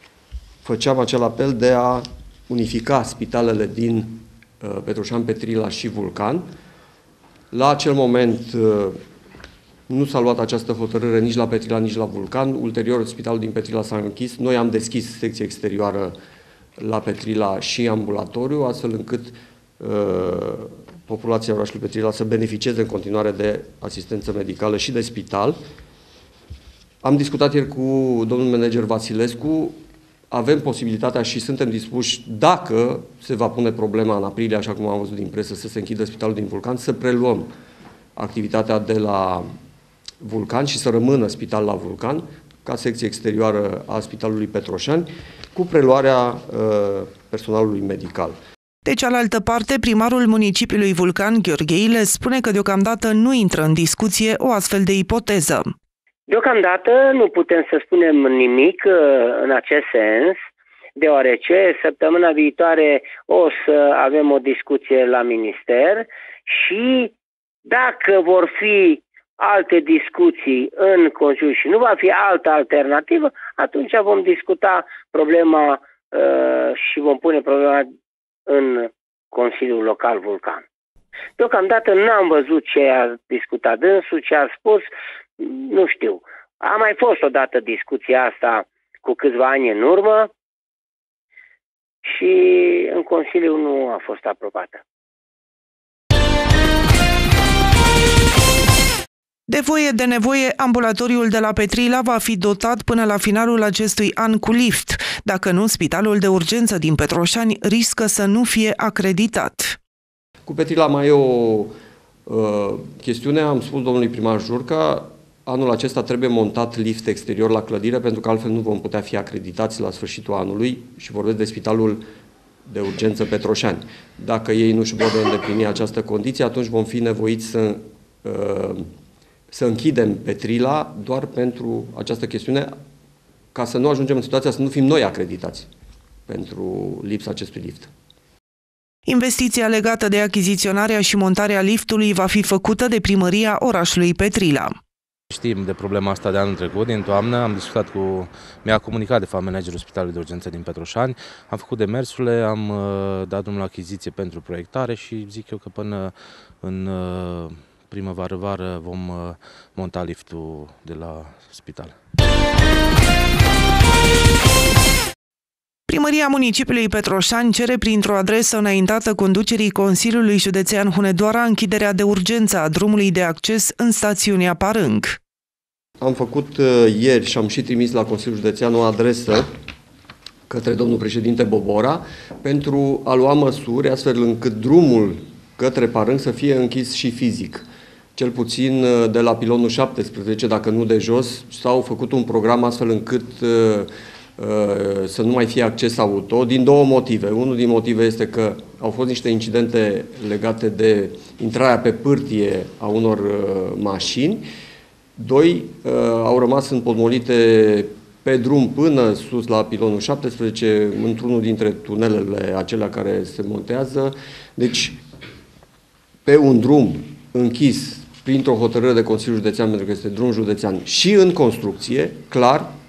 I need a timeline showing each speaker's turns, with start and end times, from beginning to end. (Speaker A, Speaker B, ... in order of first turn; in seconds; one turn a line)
Speaker A: 0.6-6.4
Speaker A: 7.5-9.0
Speaker A: 9.9-16.1
Speaker A: 16.8-25.6
Speaker A: 27.0-29.8
Speaker A: 30.3-37.5
Speaker A: 38.2-39.4
Speaker A: 40.2-48.4
Speaker B: 48.9-55.7
Speaker C: 56.3-60.4
Speaker C: 61.0-67.1
Speaker C: 67.7-77.9
Speaker C: 78.5-80.6
Speaker C: 81.4-90.3
Speaker C: 92.0-94.8
Speaker B: 99.5-109.7
Speaker A: 110.5-111.7
Speaker A: 112.3-122.0
Speaker A: 122.7-128.9
Speaker A: 129.5-132.7
Speaker A: 133.5-135.7
Speaker A: 136.3-137.9
Speaker B: 139.1-144.7
Speaker D: 145.3-161.9
Speaker B: 165.9-175.2
Speaker A: 176.0-179.5
Speaker A: 180.5-204.4
Speaker A: 205.2-215.0
Speaker A: 216.2-222.7